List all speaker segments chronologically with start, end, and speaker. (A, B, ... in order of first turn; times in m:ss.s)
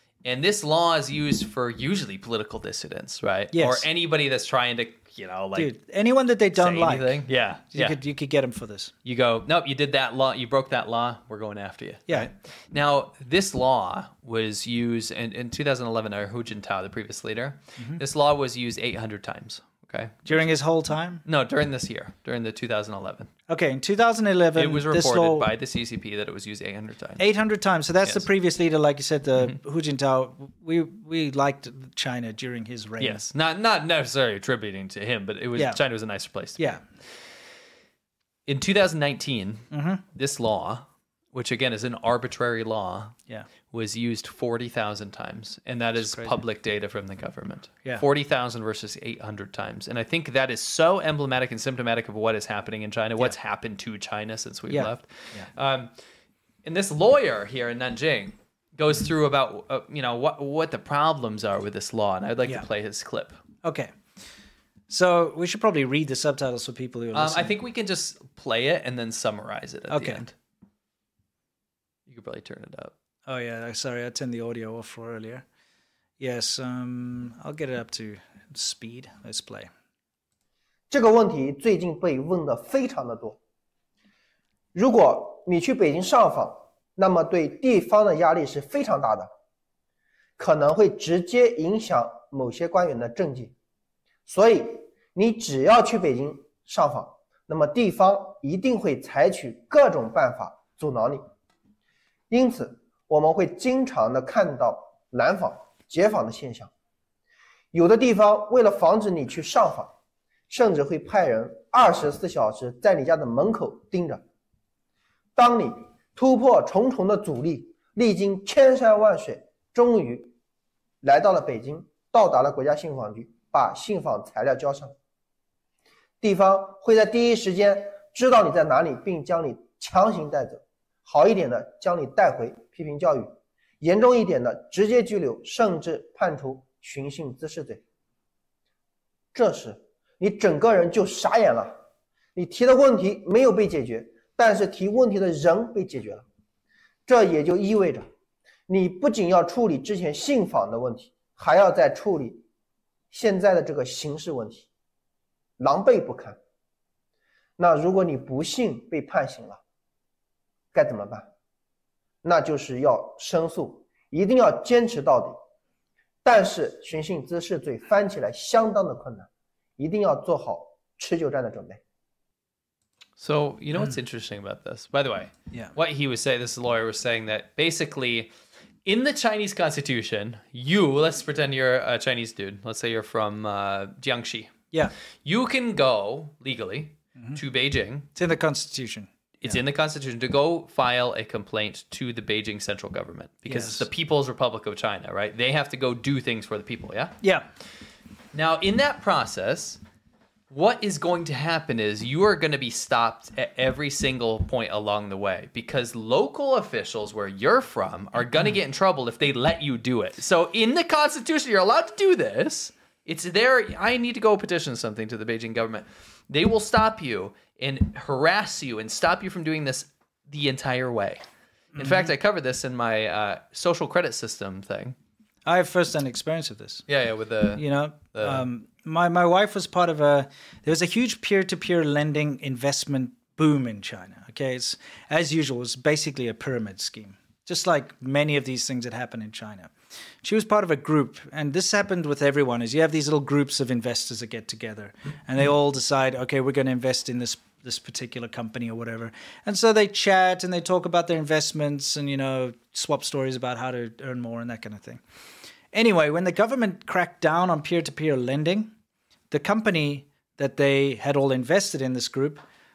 0:00.2-0:05.7 A
0:03.5-0:03.9 B
0:05.6-0:08.9 B
0:06.5-0:08.0 A
0:09.0-0:20.3 A
0:20.3-0:21.2 B
0:21.2-0:23.3 A
0:23.5-0:25.5 B
0:24.6-0:27.2 A
0:27.2-0:33.3 B
0:28.0-0:28.3 A
0:33.0-0:36.6 A
0:35.6-0:35.8 B
0:36.6-0:36.8 B
0:38.5-0:43.2 A
0:39.7-0:40.0 B
0:43.7-0:55.9 A
0:46.0-0:46.4 B
0:54.7-0:55.5 B
0:56.6-1:03.4 A
1:03.6-1:03.9 B
1:04.9-1:07.6 B
1:07.1-1:10.3 A
1:09.9-1:10.2 B
1:12.1-1:12.9 A
1:13.3-1:15.4 B
1:16.2-1:19.7 B
1:20.9-1:23.4 C
1:24.7-1:29.3 C
1:30.4-1:33.5 C
1:34.3-1:41.2 C
1:42.3-1:46.7 C
1:47.7-1:49.9 C
1:50.5-1:54.2 C
1:55.4-2:00.3 C
2:01.0-2:04.9 C
2:06.2-2:17.8 C
2:19.3-2:21.8 C
2:22.4-2:26.2 C
2:27.1-2:28.0 C
2:28.7-2:32.4 C
2:33.1-2:34.7 C
2:35.6-2:36.4 C
2:37.6-2:39.6 C
2:40.7-2:41.3 C
2:42.2-2:45.4 C
2:46.2-2:49.3 C
2:49.8-2:51.8 C
2:53.2-2:58.3 A
2:58.9-3:04.6 A
3:05.2-3:08.1 A
3:08.2-3:09.6 B
3:09.4-3:17.2 A
3:13.4-3:13.9 B
3:17.2-3:17.4 B
3:18.3-3:19.8 A
3:20.5-3:41.2 A
3:41.7-3:45.0 A
3:41.8-3:42.1 B
3:45.4-3:46.8 B
3:46.9-3:48.4 A
3:47.6-3:59.7 B
4:00.2-4:15.0 B
4:15.7-4:18.7 B
4:19.3-4:22.4 B